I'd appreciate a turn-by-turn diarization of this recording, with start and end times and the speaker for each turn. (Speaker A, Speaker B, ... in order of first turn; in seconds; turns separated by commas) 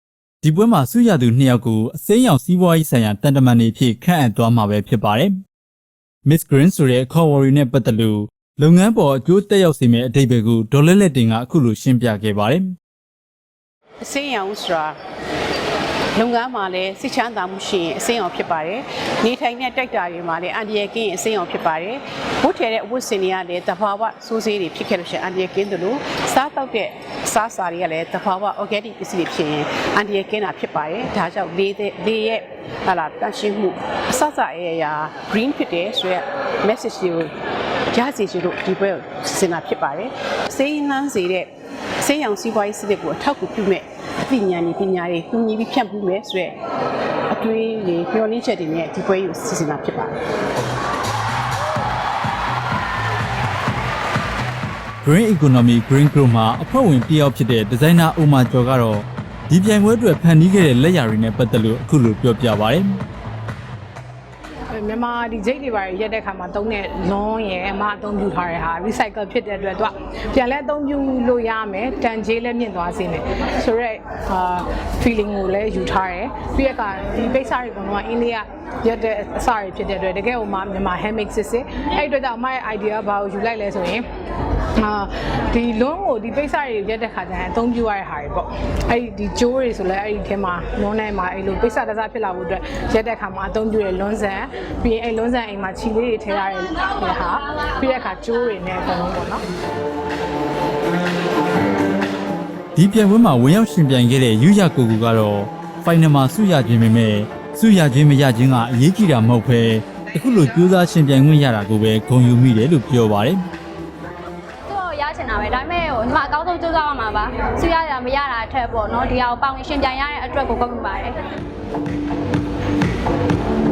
Speaker A: 0.4-5.4, Speaker A: 6.2-12.7, Speaker B: 14.0-15.0, Speaker B: 16.1-37.3, Speaker B: 37.9-46.6, Speaker B: 47.3-50.2, Speaker A: 55.0-63.0, Speaker C: 64.7-84.0, Speaker C: 84.8-99.4, Speaker A: 102.8-113.4, Speaker D: 114.7-121.2